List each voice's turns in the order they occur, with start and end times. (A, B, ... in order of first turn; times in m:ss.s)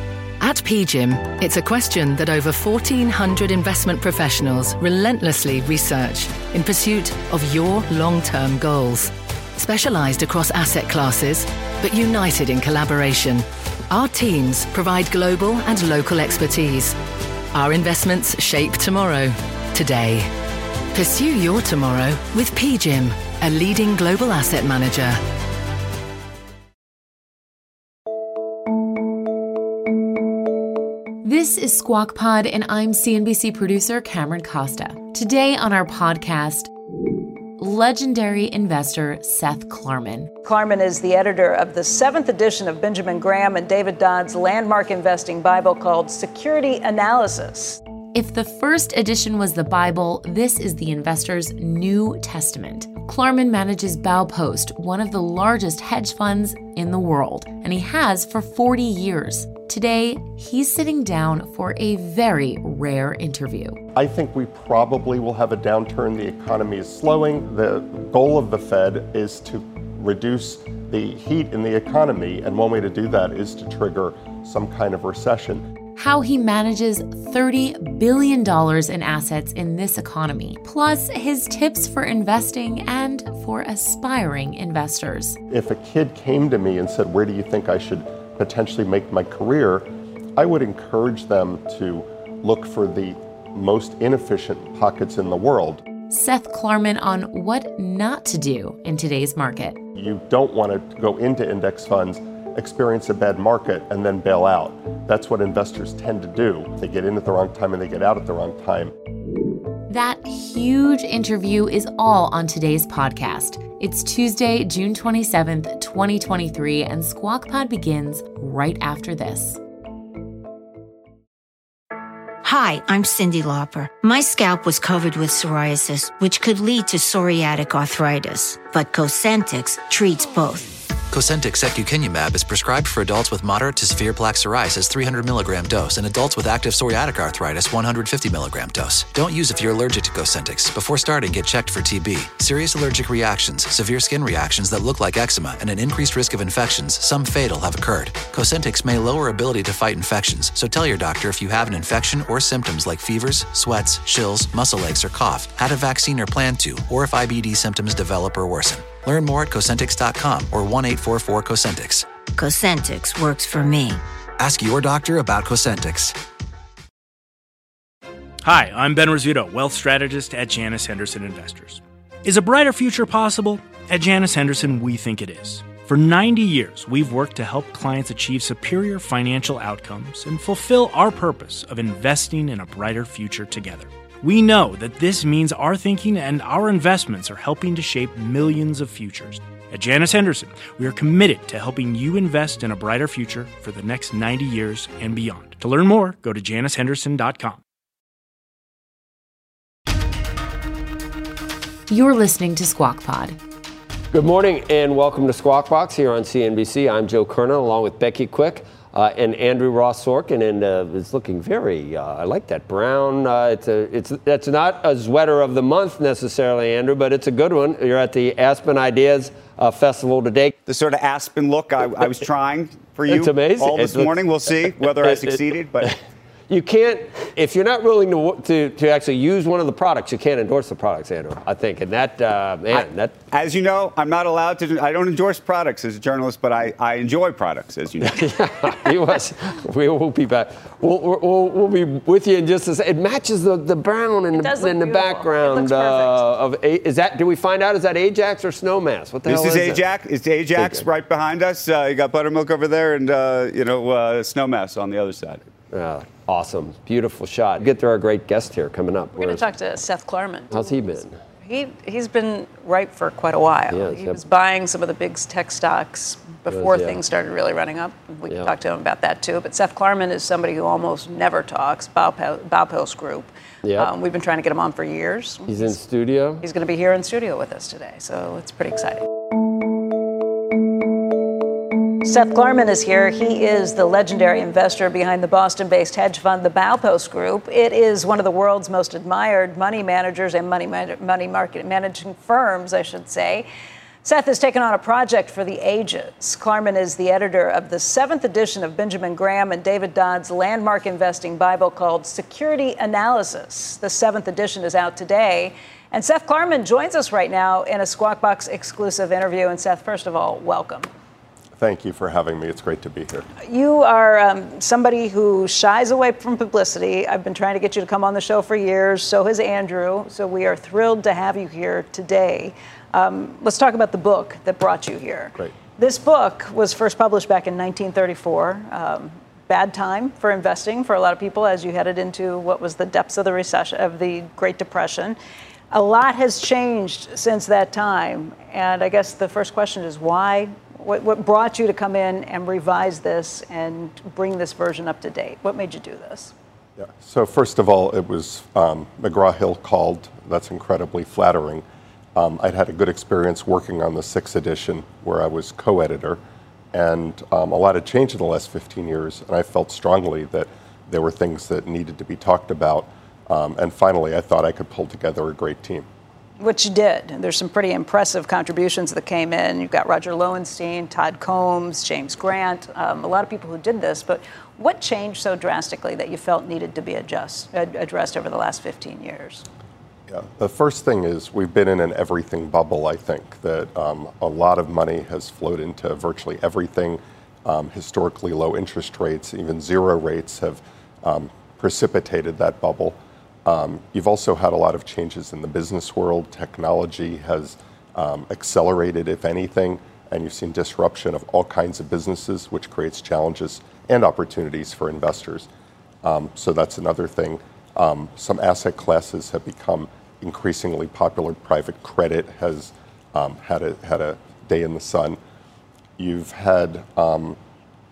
0:00.4-0:17.0 A
0:17.5-0:20.4 A
0:20.9-0:25.2 A
0:31.2-0:36.7 B
0:37.6-0:40.3 B
0:40.4-0:47.8 C
0:48.1-1:03.8 B
1:03.9-1:15.6 D
1:16.0-1:25.4 B
1:25.5-1:35.8 D
1:36.1-1:39.8 B
1:39.9-1:48.9 D
1:49.9-1:59.6 B
2:02.4-2:10.7 E
2:11.1-2:42.1 F
2:42.4-2:44.0 E
2:44.4-2:46.2 F
2:48.4-3:17.6 G
3:21.9-3:23.4 B
3:24.1-3:40.5 H
3:40.7-3:45.9 I
3:43.1-3:53.2 H
3:52.7-3:58.3 I
3:58.0-4:09.9 H
4:04.3-4:06.3 C
4:09.2-4:15.4 I
4:10.6-4:10.8 H
4:15.7-4:19.4 H
4:19.2-4:35.7 C
4:20.5-4:21.2 H
4:23.7-4:24.2 H
4:26.5-4:27.0 H
4:33.6-4:33.9 H
4:35.5-4:36.4 H
4:36.4-4:39.1 C
4:42.0-4:53.4 C
4:54.0-5:10.8 C
5:11.6-5:13.3 D
5:13.4-5:35.2 C
5:35.7-5:46.3 C
5:46.8-5:56.2 D
5:56.7-6:05.9 D
6:06.4-6:19.4 C
6:20.1-6:45.5 D
6:46.0-6:55.2 D
6:56.0-6:57.4 D